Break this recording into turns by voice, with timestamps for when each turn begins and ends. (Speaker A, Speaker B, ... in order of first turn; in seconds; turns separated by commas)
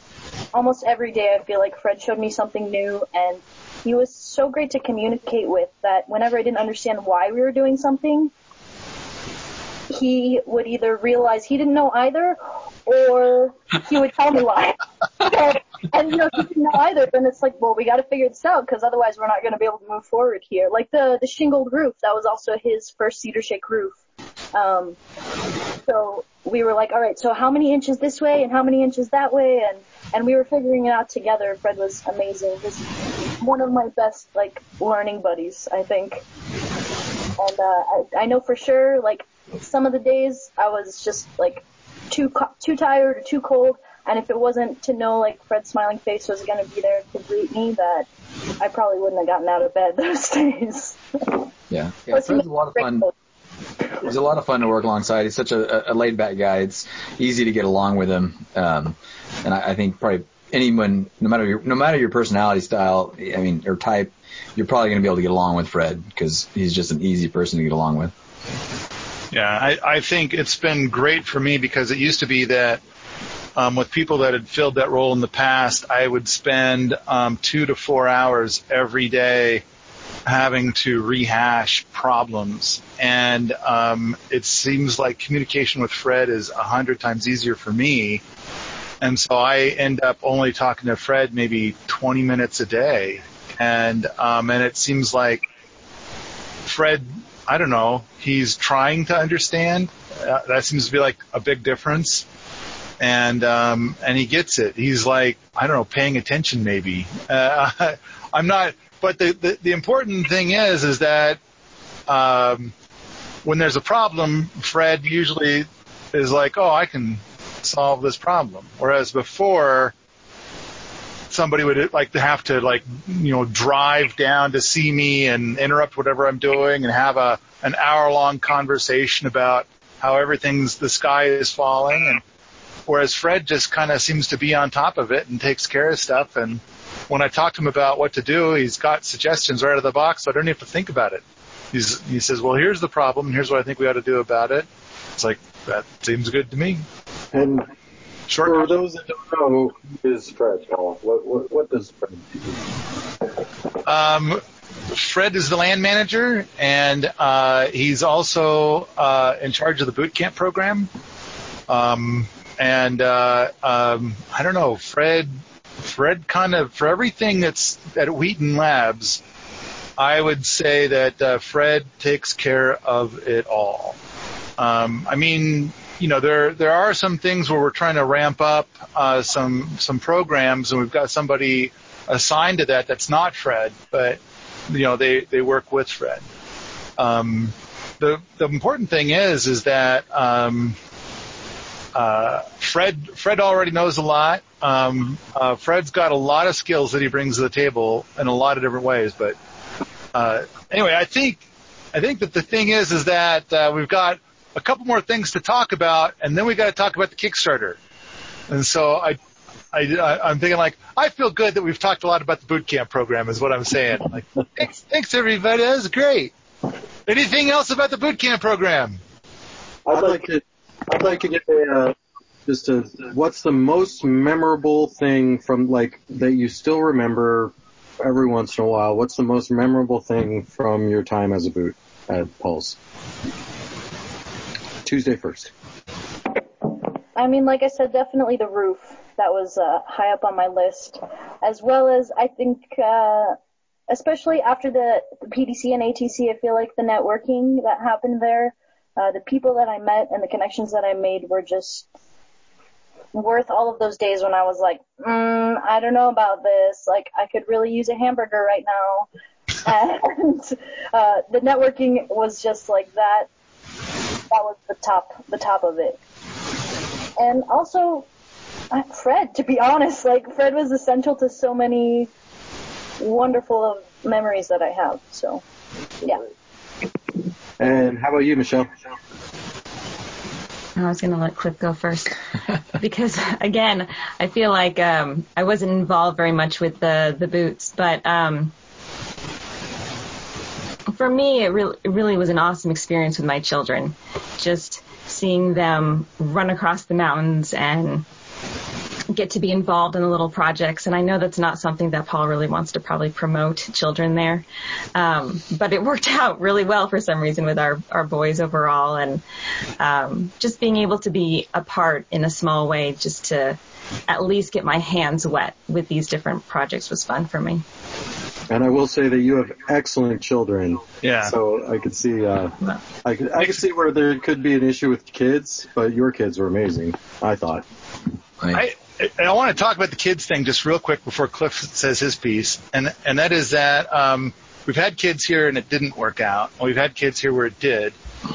Speaker A: 0.5-8.3, Speaker A: 9.9-24.0, Speaker A: 24.5-25.0, Speaker A: 25.7-36.2, Speaker A: 37.4-51.4, Speaker B: 51.7-53.1, Speaker A: 52.1-53.1, Speaker B: 54.0-68.1, Speaker C: 69.3-72.8, Speaker C: 73.6-79.6, Speaker C: 80.3-88.2, Speaker C: 89.0-95.4, Speaker C: 96.7-102.2, Speaker C: 103.0-111.4, Speaker C: 112.1-112.7, Speaker C: 113.5-119.9, Speaker C: 121.3-132.2, Speaker C: 132.9-141.2, Speaker C: 141.7-146.8, Speaker D: 147.3-147.7, Speaker C: 148.3-148.7, Speaker D: 148.4-152.4, Speaker C: 153.8-160.9, Speaker C: 161.7-165.3, Speaker C: 165.8-169.2, Speaker C: 170.0-174.0, Speaker C: 174.6-186.2, Speaker C: 187.0-190.8, Speaker C: 191.9-199.3, Speaker C: 200.1-201.4, Speaker C: 201.9-207.8, Speaker C: 208.5-209.2, Speaker C: 209.7-216.3, Speaker C: 217.1-219.0, Speaker D: 219.9-232.8, Speaker D: 234.8-235.5, Speaker A: 237.2-243.4, Speaker A: 243.9-251.9, Speaker A: 253.1-259.1, Speaker A: 259.6-263.3, Speaker A: 264.3-266.0, Speaker A: 267.2-268.1, Speaker A: 268.7-272.1, Speaker A: 273.0-275.4, Speaker D: 277.6-278.7, Speaker E: 280.8-282.2, Speaker E: 282.8-288.6, Speaker E: 290.9-298.1, Speaker E: 299.1-309.2, Speaker E: 309.8-317.6, Speaker D: 318.5-327.6, Speaker C: 321.0-321.3, Speaker C: 328.5-337.9